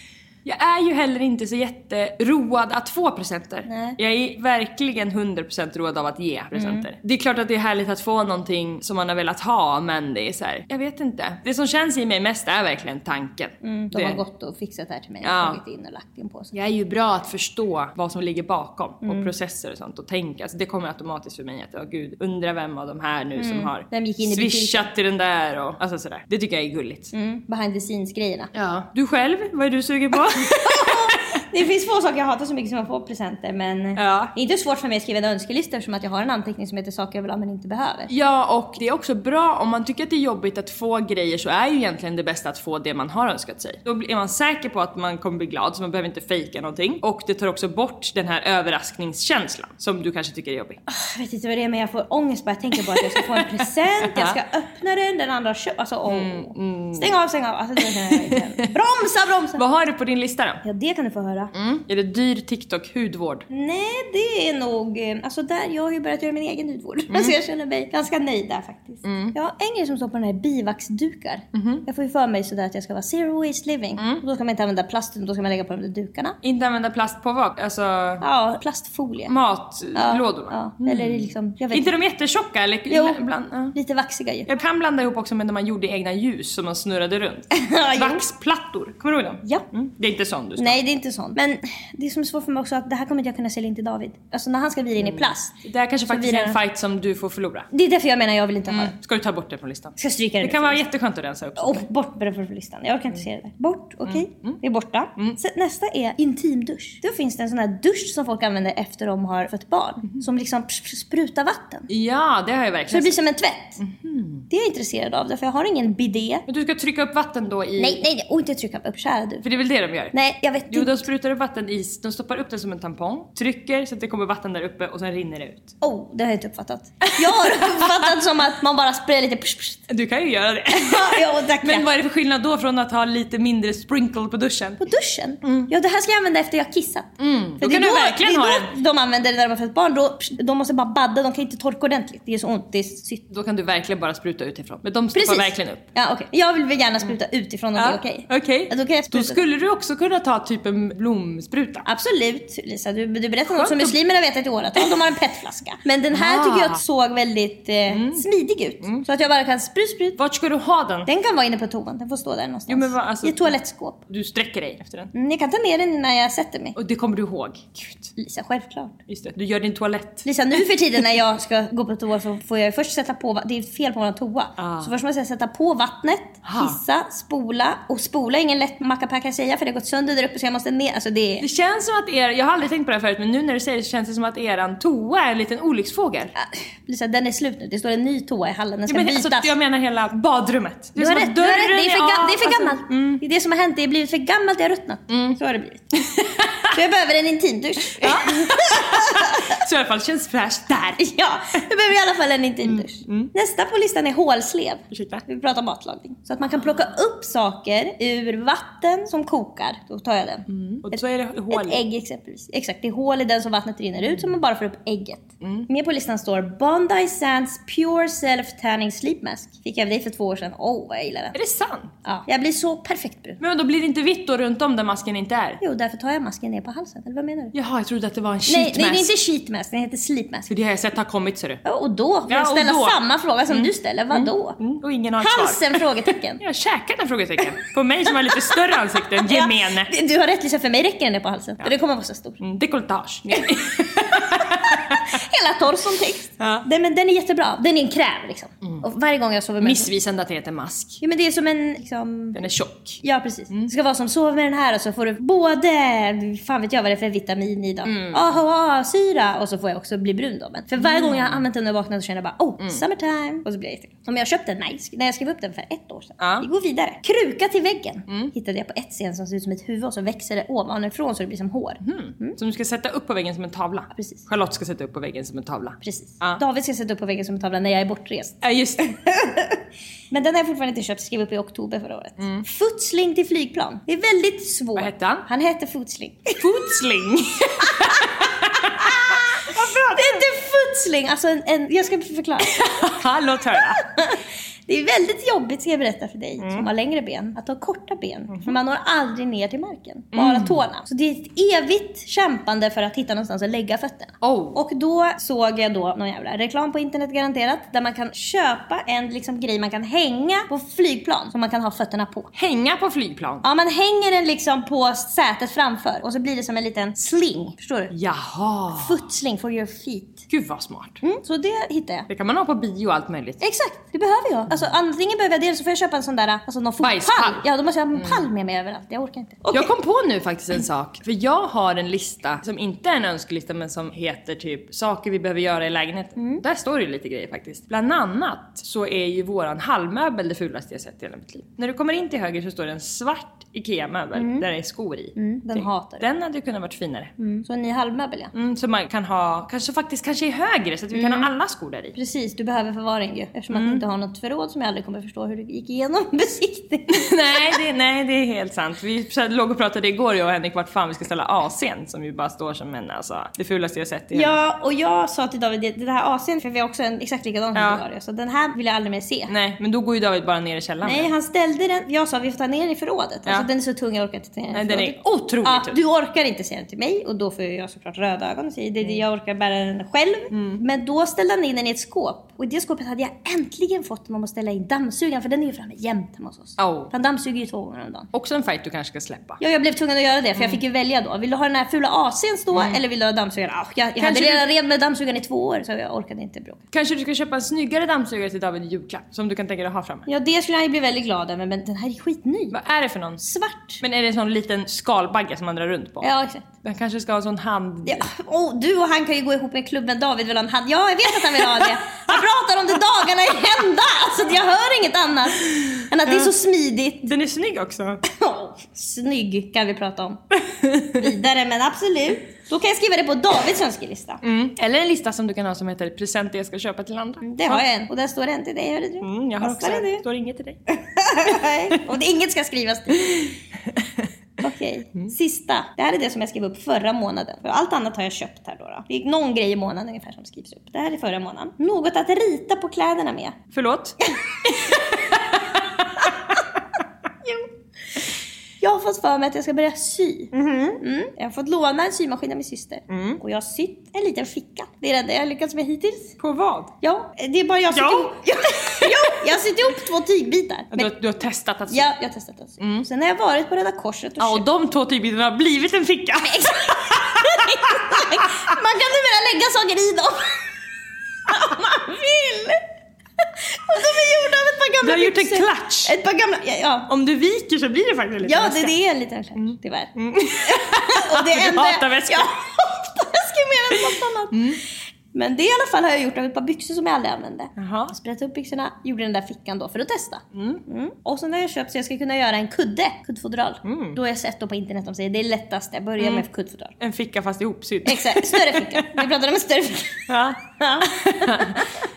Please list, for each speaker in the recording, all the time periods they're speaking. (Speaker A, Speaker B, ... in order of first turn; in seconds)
Speaker A: 0.4-14.2, 15.2-15.6, 16.5-27.1, 28.5-31.2, 34.0-34.3, 38.1-50.8, 53.0-53.5, 54.0-54.4, 56.1-57.1, 57.8-58.7, 59.6-60.6, 61.5-63.5, 67.1-67.3, 69.0-69.3, 71.5-71.8, 74.0-74.2, 76.4-78.2, 79.3-83.8, 84.5-90.8, 95.0-97.7, 98.7-101.8, 104.0-104.6, 111.9-113.2, 113.8-114.5, 116.5-118.0, 119.4-120.2, 120.7-125.7, 127.1-128.1, 129.9-134.8, 135.4-135.7, 137.2-138.7, 143.3-145.8, 147.8-151.8, 153.5-153.9, 156.1-156.8, 157.9-158.2, 158.8-159.1, 160.2-161.1, 162.7-165.1, 166.7-168.1, 169.1-170.3, 174.6-174.9, 176.4-176.8, 181.4-186.3, 188.9-193.2, 195.1-195.4, 196.0-196.7, 198.0-201.0, 202.6-203.3, 204.9-205.2, 206.6-206.9, 210.5-211.8, 215.4-215.7, 221.3-221.9, 223.4-225.6, 227.5-229.1, 230.5-231.6, 232.3-235.8, 236.4-239.9, 242.4-245.0, 246.4-246.7, 249.6-251.0, 252.3-253.7, 257.8-258.4, 260.8-261.4, 266.2-266.5, 268.1-268.3, 271.8-276.4, 278.4-278.9, 282.2-282.4, 284.8-285.3, 286.4-290.2, 292.5-293.8, 296.4-296.7, 300.1-300.6, 304.2-304.6, 312.3-313.4, 317.9-319.0, 320.3-321.0, 322.1-323.4, 326.8-328.2, 329.5-347.1, 348.3-351.9, 353.5-353.8, 356.9-364.4, 367.5-367.8, 369.3-371.1, 374.5-375.8, 380.3-380.6, 386.6-386.9, 388.1-389.4, 392.5-392.8, 394.0-394.5, 396.7-400.1, 402.5-403.2, 403.8-406.1, 406.6-408.1, 411.4-412.2, 415.4-416.3, 417.1-418.0, 420.6-421.0, 424.2-427.6, 429.0-430.6, 443.5-446.1, 450.3-450.8, 452.9-453.2, 456.2-456.7, 457.7-459.2, 460.7-461.9, 462.6-462.9, 464.2-468.0, 474.8-475.9, 476.9-478.7, 479.3-482.3, 483.7-484.6, 487.6-487.9, 490.3-490.6, 493.6-494.0, 496.0-496.2, 496.8-499.0, 500.1-501.7
Speaker B: 3.6-4.0, 6.5-6.8, 13.6-16.5, 19.0-19.3, 23.4-24.9, 27.1-28.5, 30.4-38.1, 50.9-59.6, 60.6-61.5, 63.5-76.4, 78.2-79.3, 79.9-81.9, 82.9-83.2, 83.7-84.5, 87.5-88.2, 90.6-95.5, 96.1-96.6, 97.7-98.9, 100.0-100.8, 101.6-111.9, 112.9-113.8, 114.5-116.4, 117.8-119.4, 120.1-121.0, 125.8-129.8, 130.7-131.8, 134.8-143.2, 145.1-149.4, 151.8-160.2, 161.1-164.0, 165.1-166.8, 168.2-168.9, 170.2-181.4, 186.3-189.5, 190.9-195.9, 196.7-199.4, 201.0-221.3, 222.1-223.4, 225.6-227.5, 228.5-230.5, 231.6-234.6, 235.2-236.4, 239.2-242.4, 244.4-249.9, 251.0-252.4, 253.0-272.4, 273.9-274.2, 275.8-279.6, 280.1-286.4, 288.8-292.7, 293.8-312.3, 313.4-317.9, 318.7-320.2, 321.0-322.1, 323.4-329.7, 336.2-336.4, 344.1-344.5, 345.1-346.0, 347.2-348.3, 350.9-351.3, 351.9-357.4, 364.1-369.3, 370.8-388.1, 389.4-396.6, 400.1-402.6, 403.2-403.8, 406.0-406.4, 407.9-417.1, 418.1-420.2, 420.8-424.2, 427.2-430.0, 430.8-433.3, 434.4-443.4, 448.6-456.2, 456.8-460.9, 461.7-464.4, 466.2-470.4, 471.3-472.6, 473.5-476.9, 478.2-484.4, 485.1-496.7, 497.9-501.6